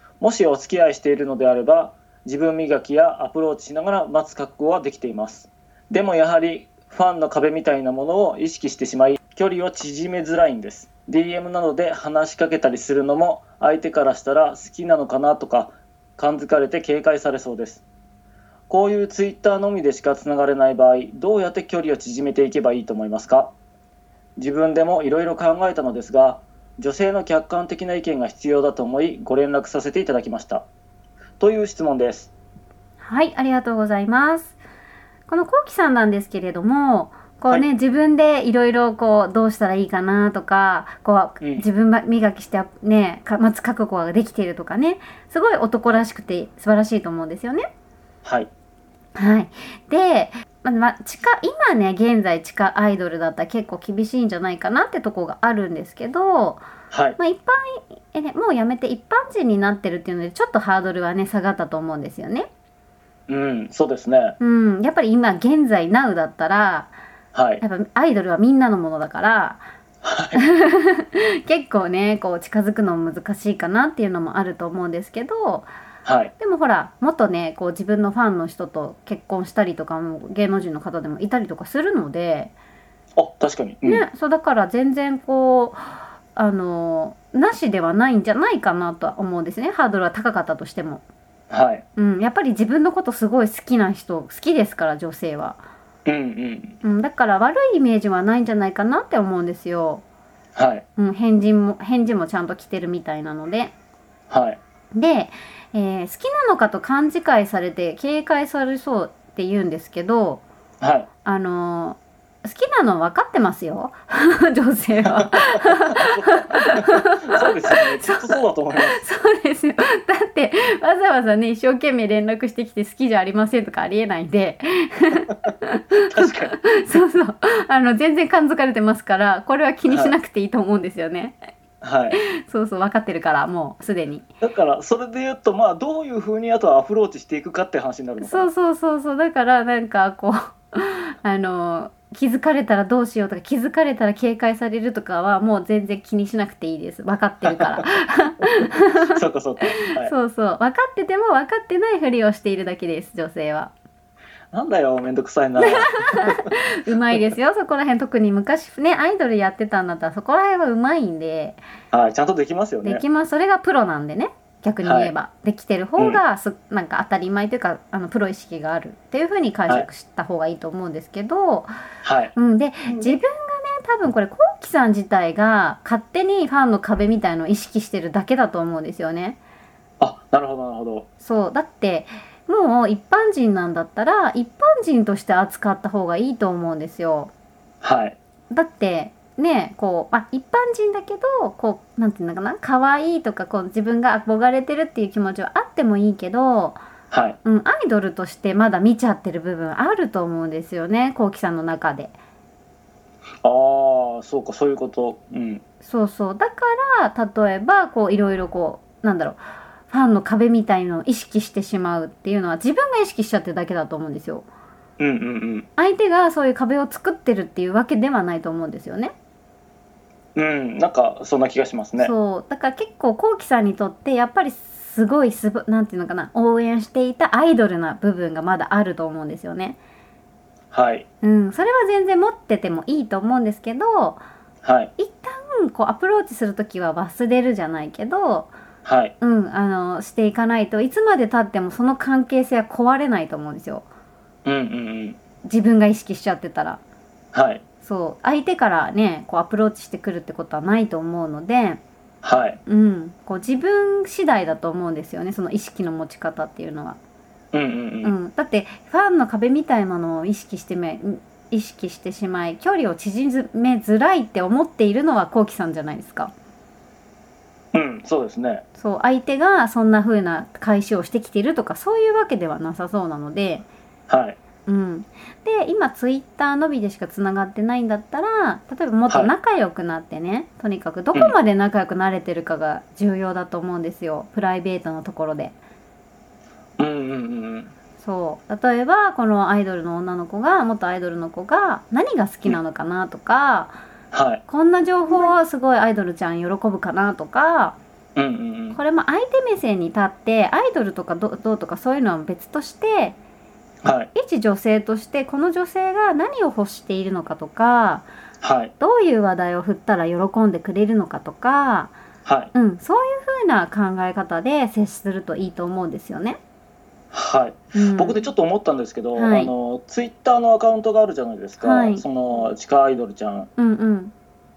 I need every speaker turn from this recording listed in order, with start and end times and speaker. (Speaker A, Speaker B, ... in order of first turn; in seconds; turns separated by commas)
Speaker A: 0.2-17.8, Speaker A: 18.7-23.5, Speaker A: 24.4-30.6, Speaker A: 31.4-32.3, Speaker B: 33.0-34.5, Speaker B: 35.3-47.6, Speaker A: 41.4-41.6, Speaker A: 48.2-48.5, Speaker B: 49.1-56.6, Speaker A: 56.9-57.2, Speaker B: 57.2-62.5, Speaker A: 63.3-64.4, Speaker B: 64.4-66.9, Speaker A: 67.3-67.6, Speaker B: 67.6-69.6, Speaker A: 70.0-70.4, Speaker B: 70.3-75.7, Speaker A: 76.0-76.3, Speaker B: 76.4-82.5, Speaker A: 83.2-84.0, Speaker B: 83.8-91.0, Speaker A: 91.5-91.8, Speaker B: 92.0-95.6, Speaker A: 96.0-96.8, Speaker B: 96.8-100.0, Speaker A: 100.5-100.8, Speaker B: 101.0-103.7, Speaker A: 104.3-104.6, Speaker B: 104.9-110.4, Speaker A: 110.8-111.1, Speaker B: 111.2-131.4, Speaker A: 115.1-119.0, Speaker A: 126.0-126.6, Speaker A: 129.9-130.1, Speaker A: 131.8-132.2, Speaker B: 132.1-134.2, Speaker A: 134.4-138.5, Speaker B: 138.2-149.1, Speaker A: 147.4-147.8, Speaker A: 149.0-150.1, Speaker B: 149.7-153.7, Speaker A: 154.5-156.5, Speaker B: 155.6-161.6, Speaker A: 161.9-163.0, Speaker B: 162.8-171.7, Speaker A: 164.8-165.1, Speaker A: 172.0-172.3, Speaker B: 172.3-179.4, Speaker A: 180.0-181.1, Speaker B: 181.2-187.3, Speaker A: 187.8-188.2, Speaker B: 188.5-196.8, Speaker A: 197.1-197.4, Speaker B: 197.4-202.1, Speaker A: 203.4-205.6, Speaker B: 205.8-214.5, Speaker A: 215.0-215.7, Speaker B: 215.8-219.1, Speaker A: 220.3-222.1, Speaker B: 222.0-229.8, Speaker A: 230.7-231.1, Speaker B: 231.2-234.2, Speaker A: 234.6-234.9, Speaker B: 235.0-238.5, Speaker A: 238.8-239.1, Speaker B: 239.2-243.8, Speaker A: 244.4-245.2, Speaker B: 245.4-246.8, Speaker A: 247.3-247.6, Speaker B: 247.8-251.8, Speaker A: 252.2-252.6, Speaker B: 252.7-257.0, Speaker A: 257.5-258.1, Speaker B: 258.0-266.3, Speaker A: 267.7-268.6, Speaker B: 268.8-273.6, Speaker A: 274.1-274.4, Speaker B: 274.7-285.5, Speaker A: 286.8-287.7, Speaker B: 288.0-293.8, Speaker A: 294.1-294.4, Speaker B: 294.5-297.8, Speaker A: 298.1-298.8, Speaker B: 298.7-303.2, Speaker A: 303.8-304.1, Speaker B: 304.1-308.1, Speaker A: 308.4-308.7, Speaker B: 308.8-311.9, Speaker A: 312.2-312.5, Speaker B: 312.5-316.4, Speaker A: 317.1-323.5, Speaker B: 317.7-318.3, Speaker B: 319.1-319.5, Speaker B: 321.6-322.1, Speaker B: 323.6-324.1